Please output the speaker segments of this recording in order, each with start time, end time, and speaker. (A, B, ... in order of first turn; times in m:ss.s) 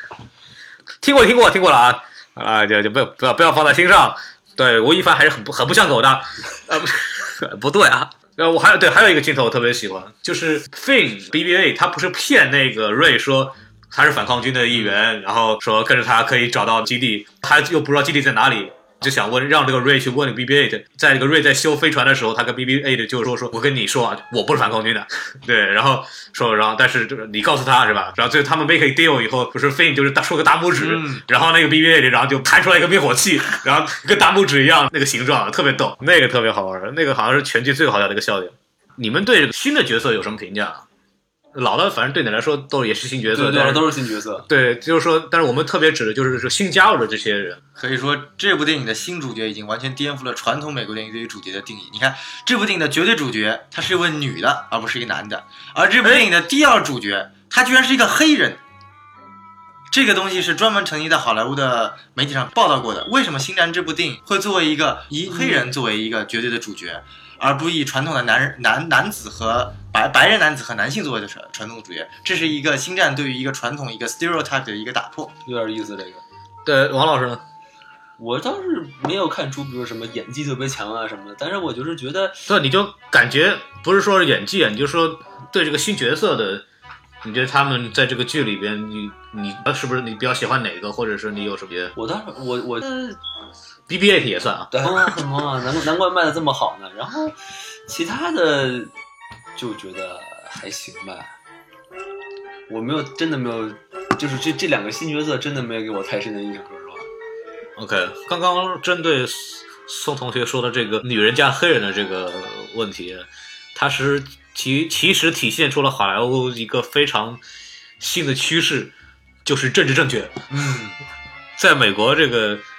0:01.0-0:40.9 A
0:30.8-0:31.2 B
0:41.5-0:43.9 A
0:43.3-0:44.5 C
0:44.5-0:47.6 A
0:47.8-0:58.6 B
0:56.0-0:56.3 A
0:59.9-1:15.3 B
1:05.3-1:05.6 C
1:15.5-1:16.2 C
1:16.6-1:17.4 A
1:18.2-1:22.5 C
1:22.5-1:26.6 A
1:27.2-1:31.9 A
1:31.9-1:33.2 C
1:33.9-1:35.2 A
1:34.7-1:38.9 C
1:39.6-1:41.3 C
1:42.7-1:47.1 C
1:47.8-1:57.4 A
1:58.0-1:58.9 A
1:59.4-2:00.4 A
2:00.5-2:01.0 B
2:01.6-2:02.6 A